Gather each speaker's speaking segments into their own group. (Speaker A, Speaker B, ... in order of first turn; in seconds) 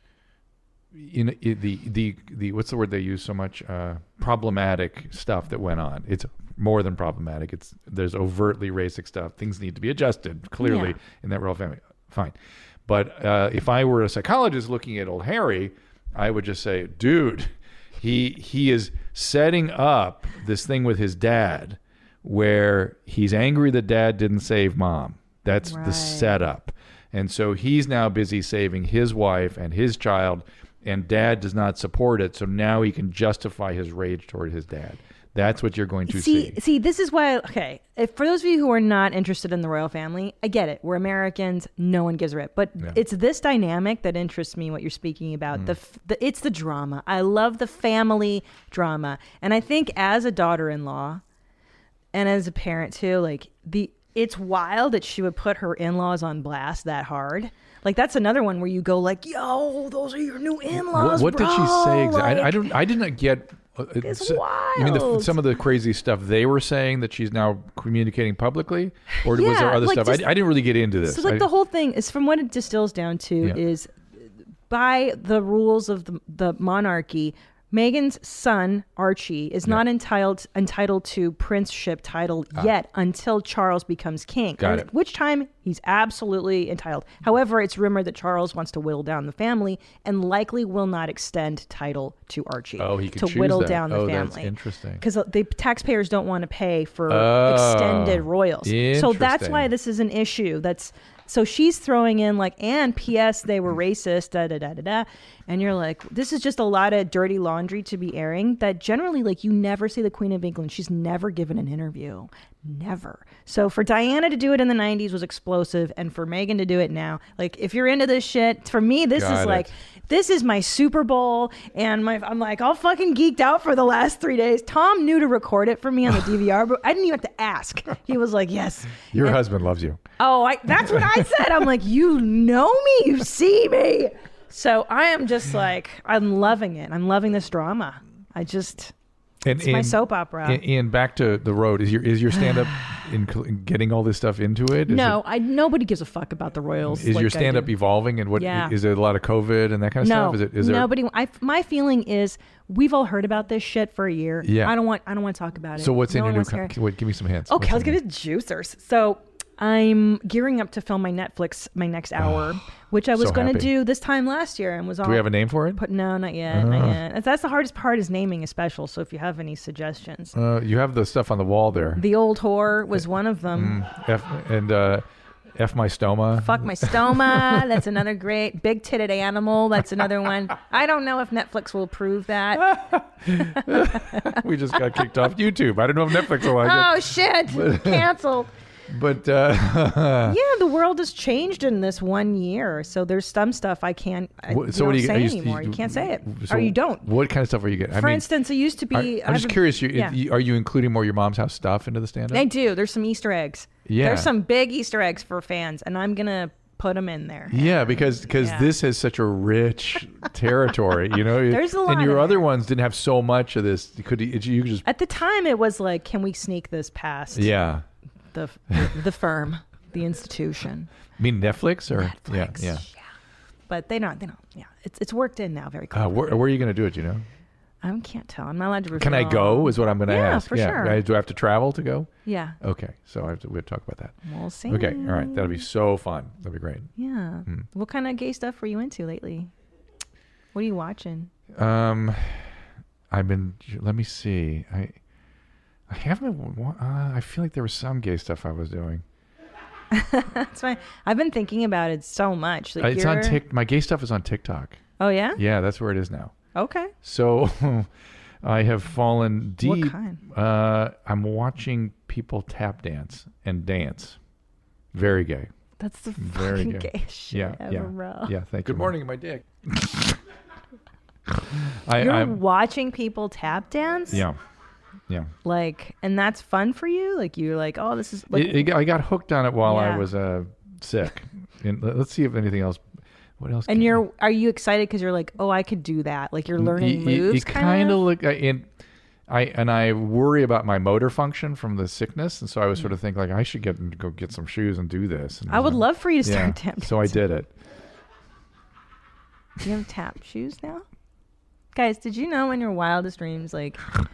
Speaker A: 0.9-12.3, 12.9-36.6, 60.9-71.5, 84.6-84.9, 92.8-95.0, 97.1-99.7, 119.1-119.7, 129.1-130.0, 130.8-131.1, 139.4-145.2, 146.9-150.9, 154.4-154.8, 155.8-158.0, 162.2-162.5, 163.2-163.7, 165.0-165.8, 166.5-167.0, 170.3-172.0, 173.5-177.8, 182.6-188.1, 188.9-190.4, 194.5-198.3, 198.9-202.5, 203.8-204.3, 207.5-214.8, 217.3-217.8, 221.2-222.8, 225.9-227.2, 228.9-232.1, 232.6-234.2, 234.7-236.9, 241.5-242.4, 243.1-244.9, 245.9-249.0, 252.8-254.8, 255.3-256.3, 257.0-257.9, 258.4-264.2, 264.9-265.5, 266.2-270.2, 271.3-272.4, 274.1-274.4, 278.3-282.8, 283.4-284.0, 286.6-288.7, 289.3-297.5
Speaker B: 10.6-11.0, 25.6-26.4, 36.1-51.2, 52.1-62.7, 64.0-65.3, 69.2-70.4, 71.0-74.0, 74.7-129.4, 130.2-138.9, 139.6-140.6, 142.4-142.9, 144.9-147.7, 148.3-148.7, 150.0-156.7, 157.5-170.3, 172.0-173.8, 176.3-184.4, 186.2-188.5, 190.2-197.1, 197.9-200.2, 202.3-208.7, 211.5-212.5, 214.8-217.5, 218.3-220.9, 221.9-223.1, 223.7-226.4, 227.8-231.0, 232.2-232.6, 234.2-235.6, 237.0-239.5, 240.5-241.3, 249.9-253.4, 255.0-255.4, 256.5-256.9, 259.6-260.2, 265.8-268.3, 272.0-274.2, 275.4-278.7, 279.6-280.1, 283.7-288.0, 295.5-297.2, 299.6-300.8, 301.7-303.8